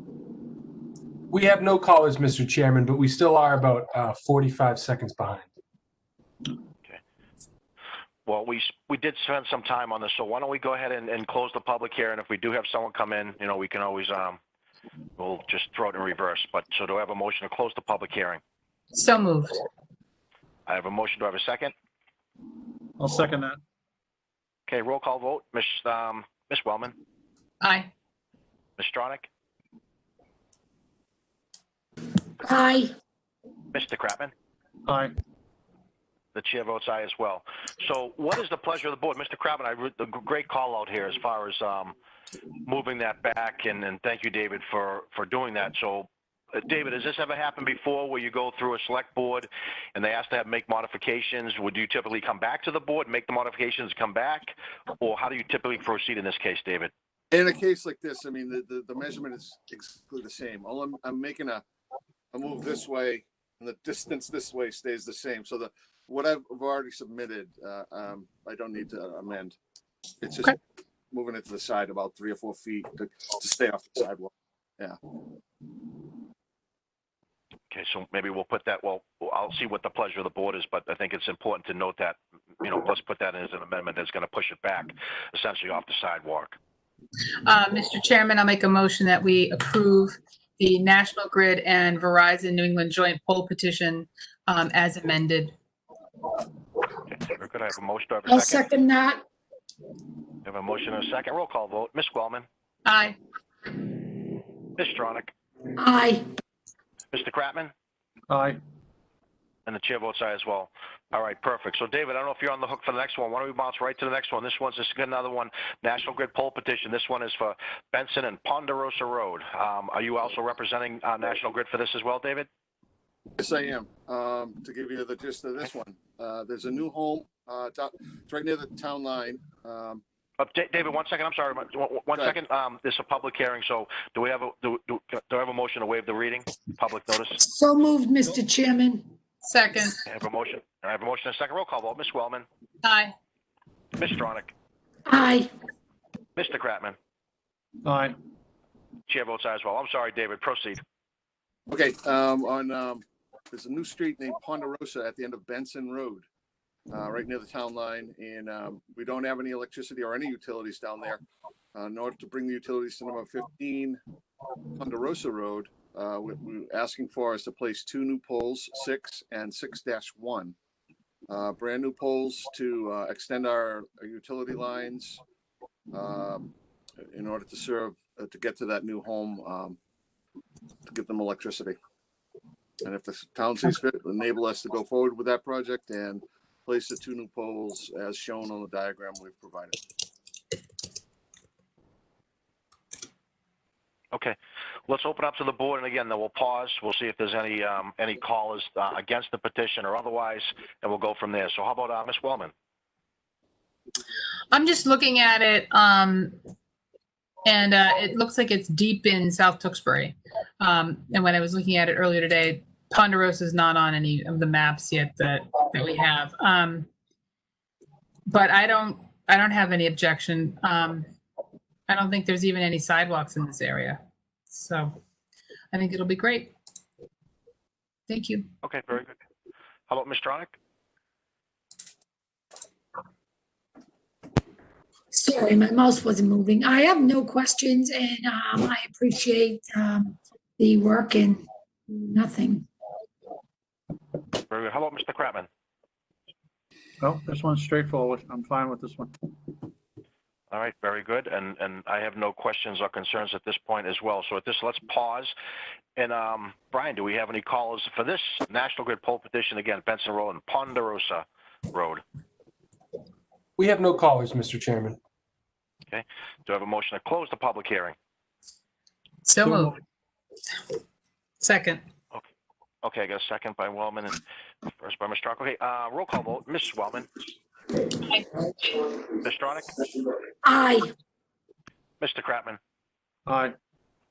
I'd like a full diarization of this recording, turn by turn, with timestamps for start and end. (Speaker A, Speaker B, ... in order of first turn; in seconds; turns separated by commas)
Speaker A: 1.3-5.5, Speaker B: 8.2-14.4, Speaker B: 15.2-18.4, Speaker C: 18.9-19.6, Speaker B: 20.7-21.7, Speaker D: 23.0-23.6, Speaker B: 24.7-26.9, Speaker C: 27.6-27.9, Speaker B: 28.8-29.3, Speaker E: 32.5-32.9, Speaker B: 33.7-34.3, Speaker D: 34.9-35.1, Speaker B: 36.3-41.9, Speaker B: 42.6-56.9, Speaker F: 57.3-61.6, Speaker F: 62.3-69.5, Speaker F: 70.2-70.6, Speaker F: 71.1-75.0, Speaker B: 77.7-86.6, Speaker C: 87.4-95.5, Speaker B: 97.1-98.7, Speaker E: 98.3-99.2, Speaker B: 100.4-102.5, Speaker C: 102.8-103.2, Speaker B: 104.8-105.3, Speaker E: 105.8-106.2, Speaker B: 107.1-107.7, Speaker D: 108.3-108.6, Speaker B: 109.7-122.5, Speaker F: 123.4-130.0, Speaker B: 130.4-137.4, Speaker E: 137.4-139.1, Speaker C: 139.4-140.0, Speaker B: 140.0-142.4, Speaker C: 142.8-143.1, Speaker B: 143.9-144.5, Speaker E: 145.1-145.5, Speaker B: 146.3-146.9, Speaker D: 147.8-148.2, Speaker B: 149.1-150.8, Speaker F: 151.7-156.2, Speaker F: 156.9-161.2, Speaker F: 161.7-164.0, Speaker F: 164.8-170.5, Speaker F: 171.3-175.2, Speaker F: 175.9-176.5, Speaker F: 177.1-179.8, Speaker F: 180.8-181.8, Speaker F: 182.8-189.8, Speaker B: 194.9-202.5, Speaker C: 204.5-206.4, Speaker C: 207.4-216.9, Speaker C: 218.3-221.1, Speaker C: 221.9-225.0, Speaker C: 225.7-226.5, Speaker C: 228.1-228.5, Speaker B: 228.6-229.2, Speaker B: 229.9-230.6, Speaker E: 235.1-242.7, Speaker B: 244.5-245.5, Speaker D: 247.0-249.1, Speaker B: 250.5-255.3, Speaker B: 255.9-262.0, Speaker A: 263.6-265.0, Speaker B: 265.9-267.9, Speaker C: 269.2-269.8, Speaker A: 269.4-269.7, Speaker C: 271.4-271.8, Speaker B: 272.8-277.1, Speaker B: 279.1-279.7, Speaker E: 280.4-280.9, Speaker B: 282.0-282.6, Speaker D: 283.2-283.6